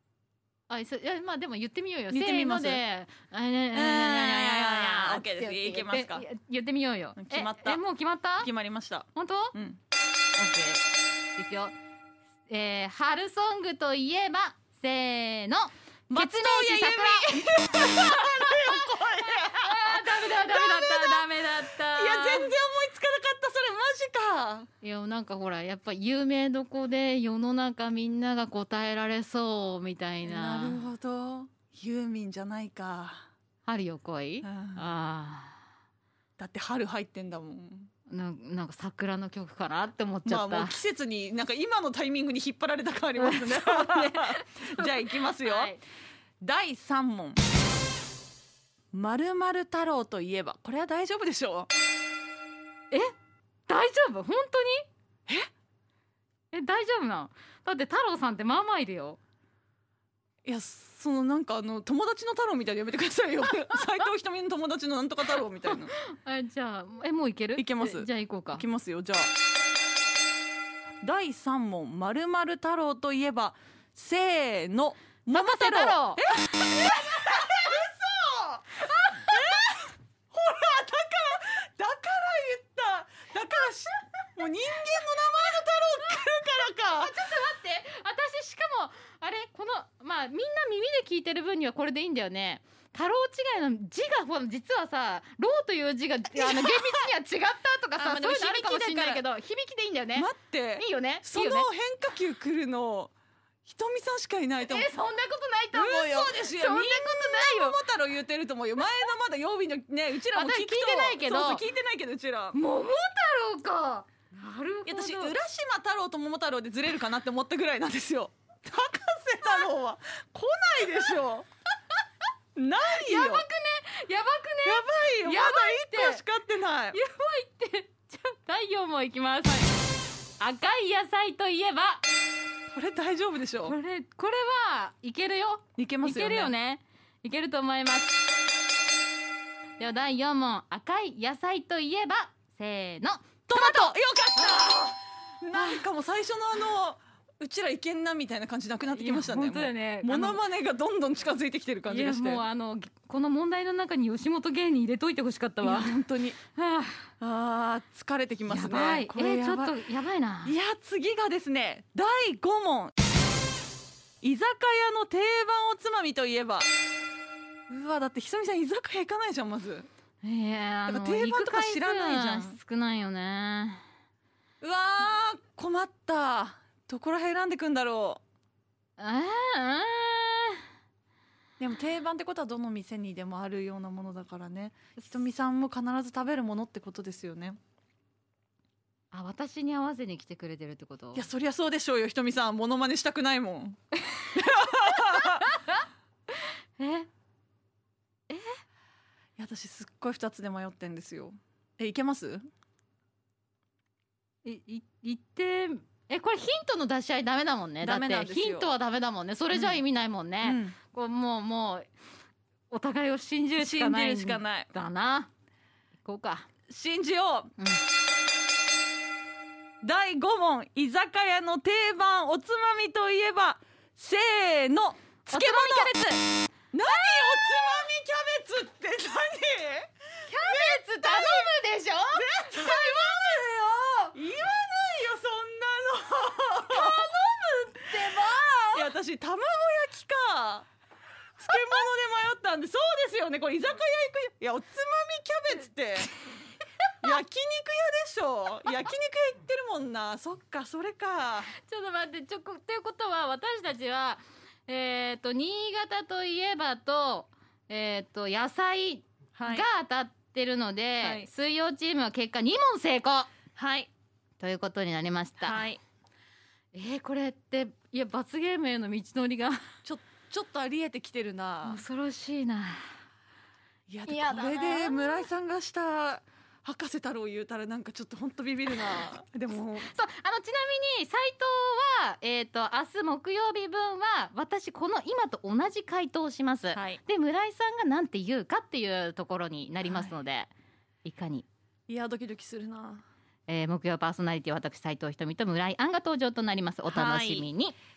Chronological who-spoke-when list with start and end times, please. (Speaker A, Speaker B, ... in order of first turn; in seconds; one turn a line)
Speaker A: 0.7-8.5
Speaker B: 2.1-2.8
Speaker B: 3.7-6.2
Speaker B: 7.2-7.8
Speaker B: 8.4-9.8
Speaker A: 9.1-9.5
Speaker A: 10.3-11.8
Speaker A: 12.5-22.5
Speaker B: 16.1-24.7
Speaker A: 24.8-30.8
Speaker B: 30.2-33.2
Speaker A: 33.6-35.6
Speaker B: 34.4-34.9
Speaker B: 36.4-37.9
Speaker A: 38.1-40.8
Speaker B: 40.2-45.7
Speaker A: 43.2-45.8
Speaker B: 46.4-47.4
Speaker B: 48.9-51.7
Speaker A: 53.7-54.9
Speaker A: 56.5-59.2
Speaker B: 60.4-65.9
Speaker A: 65.3-68.6
Speaker B: 67.6-69.3
Speaker B: 71.0-87.2
Speaker A: 75.3-77.4
Speaker A: 79.0-79.4
Speaker A: 86.8-101.7
Speaker B: 96.3-97.1
Speaker B: 98.0-99.2
Speaker B: 100.1-103.1
Speaker B: 103.6-104.9
Speaker A: 104.6-107.8
Speaker B: 105.7-112.6
Speaker A: 110.3-111.6
Speaker A: 112.5-115.3
Speaker B: 114.8-121.5
Speaker B: 122.5-123.5
Speaker A: 122.9-126.2
Speaker B: 124.6-127.0
Speaker A: 126.9-129.7
Speaker A: 130.4-132.0
Speaker B: 132.7-133.8
Speaker A: 133.6-138.2
Speaker B: 135.8-136.5
Speaker A: 139.8-144.7
Speaker B: 143.5-152.4
Speaker A: 145.5-145.8
Speaker A: 148.9-150.4
Speaker A: 151.8-156.0
Speaker B: 155.6-156.4
Speaker A: 156.5-157.1
Speaker B: 157.2-159.8
Speaker A: 158.4-160.6
Speaker B: 160.4-162.9
Speaker B: 164.2-166.7
Speaker B: 167.7-169.9
Speaker A: 170.2-173.8
Speaker B: 170.9-172.6
Speaker B: 174.6-178.2
Speaker A: 179.0-180.6
Speaker B: 181.6-187.6
Speaker A: 189.1-191.2
Speaker B: 191.1-193.8
Speaker A: 194.1-197.1
Speaker B: 194.3-195.4
Speaker A: 198.3-198.6
Speaker B: 199.4-202.4
Speaker A: 204.4-211.9
Speaker B: 207.8-208.7
Speaker B: 209.5-209.8
Speaker B: 210.4-210.8
Speaker A: 212.7-215.3
Speaker B: 213.6-214.7
Speaker A: 216.0-216.5
Speaker B: 216.7-217.5
Speaker A: 217.6-217.8
Speaker B: 219.8-225.9
Speaker A: 225.3-226.2
Speaker B: 226.7-231.5
Speaker A: 226.8-227.8
Speaker A: 230.2-233.0
Speaker B: 232.1-237.3
Speaker A: 236.7-238.9
Speaker B: 237.9-240.7
Speaker B: 241.4-246.1
Speaker A: 241.5-241.8
Speaker B: 247.0-251.5
Speaker A: 251.5-263.3
Speaker B: 259.3-259.6
Speaker B: 261.0-261.3
Speaker B: 263.5-263.9
Speaker A: 264.4-265.6
Speaker B: 265.4-265.8
Speaker A: 266.7-269.7
Speaker B: 269.8-271.8
Speaker A: 271.6-272.9
Speaker B: 273.9-279.9
Speaker A: 274.1-275.3
Speaker A: 279.8-290.5
Speaker B: 286.7-287.0
Speaker B: 289.8-290.1
Speaker A: 291.0-291.4
Speaker B: 291.9-293.0
Speaker A: 293.5-297.8
Speaker B: 296.9-297.5